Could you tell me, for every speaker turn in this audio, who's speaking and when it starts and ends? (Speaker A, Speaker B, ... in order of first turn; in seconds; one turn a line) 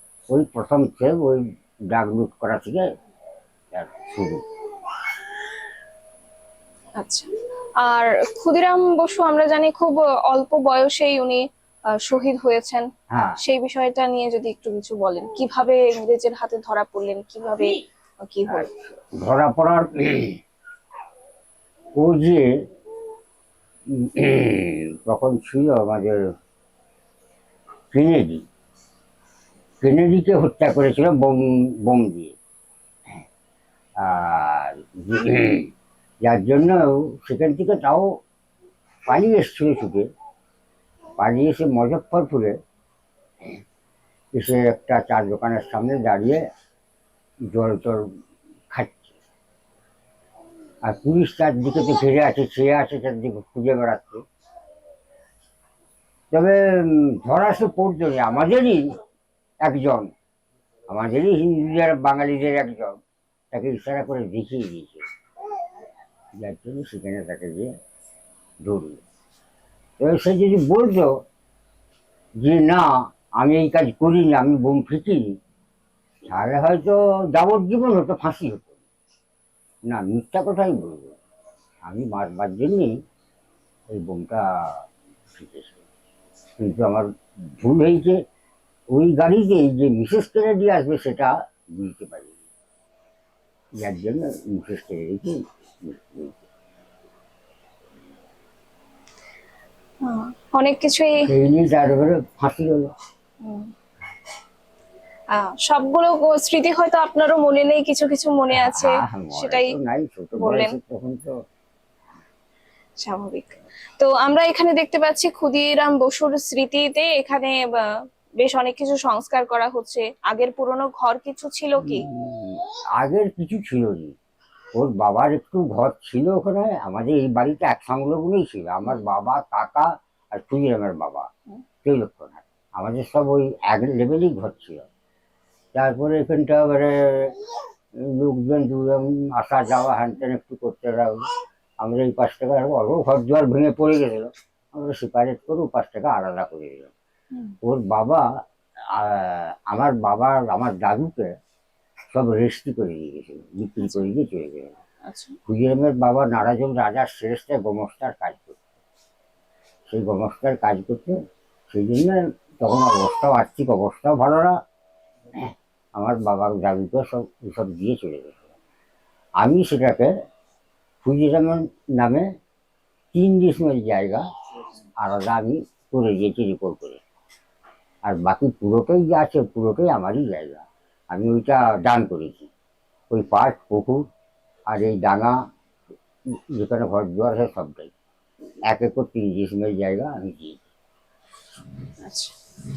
Speaker A: 0.3-2.8
Speaker A: 3.7-4.4
Speaker B: 7.0-7.3
Speaker B: 7.8-11.4
Speaker B: 12.0-12.8
Speaker A: 13.1-13.4
Speaker B: 13.4-18.7
Speaker A: 18.5-20.4
Speaker A: 21.9-22.5
Speaker A: 24.0-26.2
Speaker A: 27.9-28.4
Speaker A: 29.8-32.3
Speaker A: 34.0-35.6
Speaker A: 36.2-38.1
Speaker A: 39.1-40.1
Speaker A: 41.2-42.5
Speaker A: 44.3-46.4
Speaker A: 47.5-48.0
Speaker A: 48.7-49.1
Speaker A: 50.8-54.2
Speaker A: 56.3-58.9
Speaker A: 59.6-60.1
Speaker A: 60.9-63.0
Speaker A: 63.5-65.0
Speaker A: 66.3-67.7
Speaker A: 68.6-69.0
Speaker A: 70.0-71.1
Speaker A: 72.4-75.3
Speaker A: 76.2-78.7
Speaker A: 79.9-81.2
Speaker A: 81.8-82.9
Speaker A: 83.9-85.8
Speaker A: 86.6-88.2
Speaker A: 88.9-92.3
Speaker A: 93.8-96.4
Speaker B: 100.0-101.2
Speaker A: 101.2-102.9
Speaker B: 103.4-103.7
Speaker B: 105.3-109.7
Speaker A: 108.5-111.3
Speaker B: 110.3-110.7
Speaker B: 113.0-117.6
Speaker B: 118.4-122.0
Speaker A: 121.8-124.1
Speaker A: 124.7-131.3
Speaker A: 131.8-134.8
Speaker A: 135.7-137.3
Speaker A: 138.0-141.2
Speaker A: 141.8-146.9
Speaker A: 147.6-148.2
Speaker A: 148.9-151.3
Speaker A: 152.1-154.7
Speaker B: 153.8-154.1
Speaker B: 155.1-155.3
Speaker A: 155.5-158.6
Speaker A: 159.9-161.2
Speaker A: 161.7-164.6
Speaker A: 165.4-168.4
Speaker A: 169.4-170.1
Speaker A: 171.0-172.3
Speaker A: 173.1-174.2
Speaker A: 175.0-177.0
Speaker A: 178.0-182.5
Speaker A: 183.1-184.0
Speaker A: 184.7-185.4
Speaker A: 186.5-187.9
Speaker A: 188.7-190.6
Speaker B: 192.1-192.3